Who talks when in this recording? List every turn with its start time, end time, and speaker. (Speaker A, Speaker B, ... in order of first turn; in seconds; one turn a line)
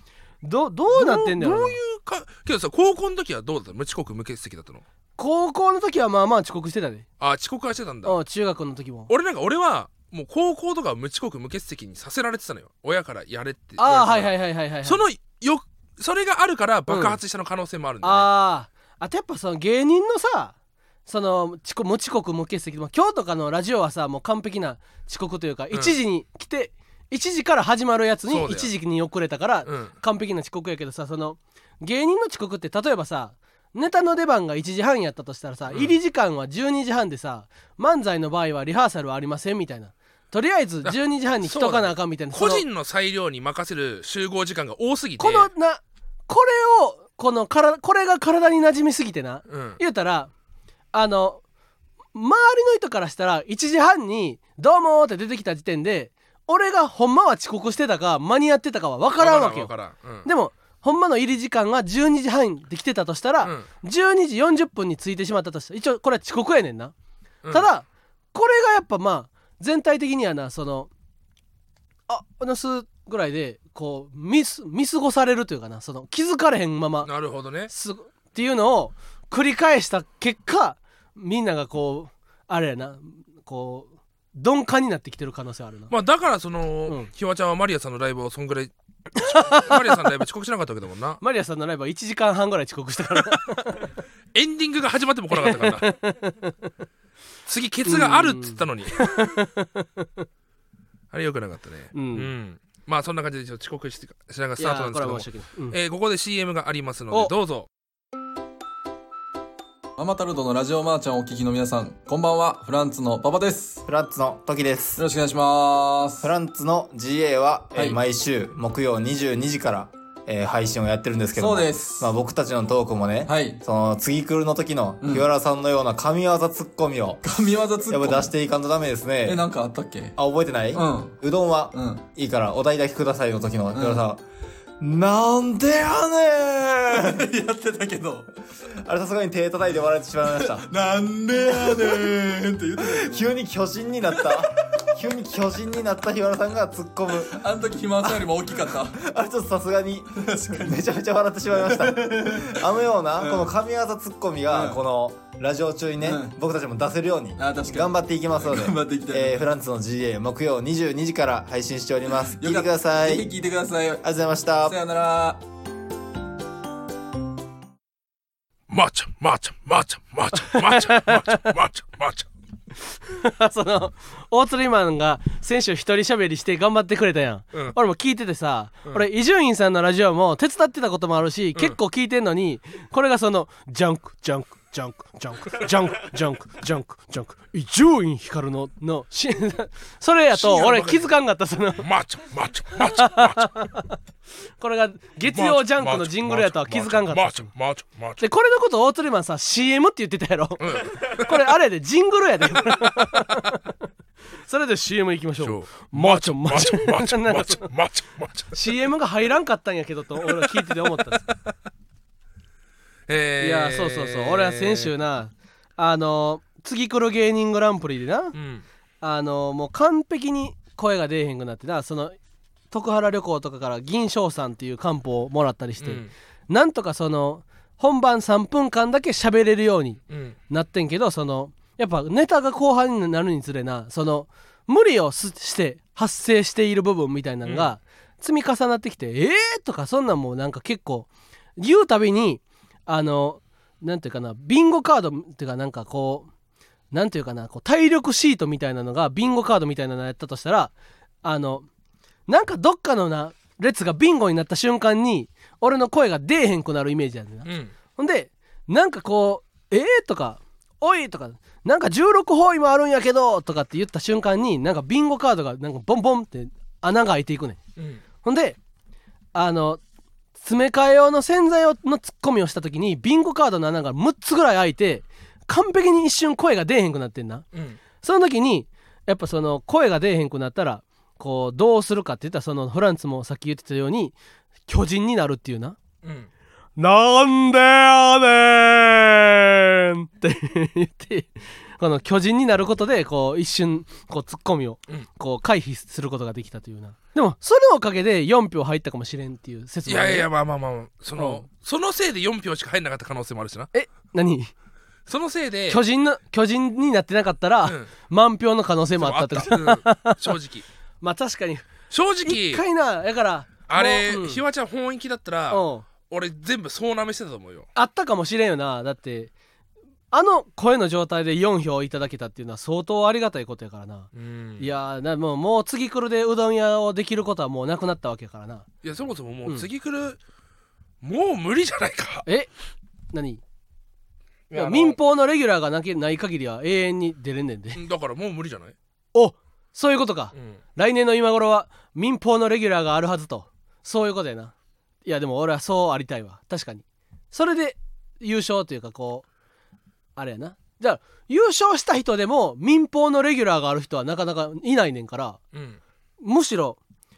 Speaker A: 0.4-1.8
Speaker B: 0.9-4.8
Speaker A: 5.2-7.1
Speaker B: 7.2-8.2
Speaker A: 8.0-9.1
Speaker B: 9.1-18.3
Speaker A: 13.8-15.0
Speaker A: 16.9-17.2
Speaker A: 18.0-20.5
Speaker A: 21.1-42.6
Speaker B: 28.3-28.7
Speaker B: 29.6-29.9
Speaker B: 40.8-45.5
Speaker A: 45.2-50.3
Speaker B: 49.5-49.8
Speaker A: 50.9-51.4
Speaker A: 52.1-59.7
Speaker B: 59.1-60.3
Speaker A: 60.2-66.9
Speaker B: 63.4-63.7
Speaker A: 67.5-70.9
Speaker A: 72.1-77.1
Speaker B: 77.0-77.7
Speaker A: 77.7-85.9
Speaker B: 85.9-91.2
Speaker A: 89.2-89.9
Speaker A: 91.2-93.9
Speaker B: 94.3-95.9
Speaker A: 95.3-96.7
Speaker B: 97.5-99.1
Speaker A: 97.8-100.2
Speaker B: 101.1-107.7
Speaker A: 101.9-102.3
Speaker A: 104.6-105.7
Speaker C: 110.0-113.8
Speaker D: 113.8-115.0
Speaker C: 115.0-116.3
Speaker D: 116.2-127.2
Speaker C: 121.4-122.1
Speaker C: 123.2-123.6
Speaker C: 127.2-128.2
Speaker D: 127.9-129.4
Speaker C: 129.2-130.2
Speaker D: 130.2-134.2
Speaker C: 130.7-131.1
Speaker C: 131.7-132.0
Speaker C: 133.8-134.0
Speaker D: 134.8-137.2
Speaker C: 137.0-138.3
Speaker D: 138.8-140.7
Speaker C: 140.5-143.3
Speaker D: 141.3-142.1
Speaker D: 142.8-147.4
Speaker C: 147.3-149.0
Speaker D: 148.0-148.3
Speaker D: 148.9-163.3
Speaker C: 150.3-150.8
Speaker C: 151.7-152.5
Speaker C: 153.2-153.5
Speaker C: 154.5-154.8
Speaker C: 156.0-156.3
Speaker C: 157.4-159.5
Speaker C: 162.4-164.0
Speaker D: 164.0-164.8
Speaker C: 164.6-165.4
Speaker B: 168.7-172.3
Speaker A: 170.4-171.4
Speaker A: 173.0-191.8
Speaker B: 190.3-191.1
Speaker B: 191.8-193.5
Speaker A: 192.8-193.9
Speaker A: 194.6-197.5
Speaker B: 195.3-198.2
Speaker A: 198.2-203.7
Speaker B: 200.6-201.3
Speaker B: 202.6-203.4
Speaker A: 204.4-207.7
Speaker B: 205.4-208.7
Speaker A: 208.5-211.3
Speaker B: 210.3-211.4
Speaker B: 213.1-214.9
Speaker A: 213.4-218.3
Speaker B: 218.3-218.6
Speaker A: 219.0-222.2
Speaker A: 222.7-246.3
Speaker B: 225.8-226.1
Speaker B: 230.1-230.3
Speaker B: 237.4-237.7
Speaker A: 246.9-250.7
Speaker A: 251.2-251.7
Speaker A: 252.3-267.6
Speaker B: 257.4-257.7
Speaker B: 267.8-268.0
Speaker A: 268.2-268.6
Speaker A: 269.3-269.8
Speaker A: 270.4-277.5
Speaker B: 277.5-277.8
Speaker A: 278.0-284.1
Speaker A: 284.7-285.8
Speaker B: 286.0-286.3
Speaker A: 286.8-300.3
Speaker B: 299.9-303.7
Speaker A: 301.2-301.4
Speaker A: 303.7-304.5
Speaker B: 305.1-305.8
Speaker A: 305.7-310.3
Speaker B: 307.6-307.9
Speaker B: 309.0-310.6
Speaker A: 311.0-311.7
Speaker B: 311.9-312.6
Speaker A: 312.2-314.4
Speaker B: 313.7-317.7
Speaker A: 315.5-315.9
Speaker A: 317.7-319.3
Speaker A: 320.1-328.7
Speaker B: 324.1-324.7
Speaker B: 328.8-330.2
Speaker B: 331.0-332.2
Speaker A: 333.1-333.4
Speaker B: 334.5-335.0
Speaker A: 334.5-337.8
Speaker B: 337.7-338.7
Speaker A: 339.1-344.5
Speaker B: 340.3-340.6
Speaker A: 345.0-349.2
Speaker A: 350.1-355.4
Speaker B: 355.5-355.8
Speaker A: 356.2-356.8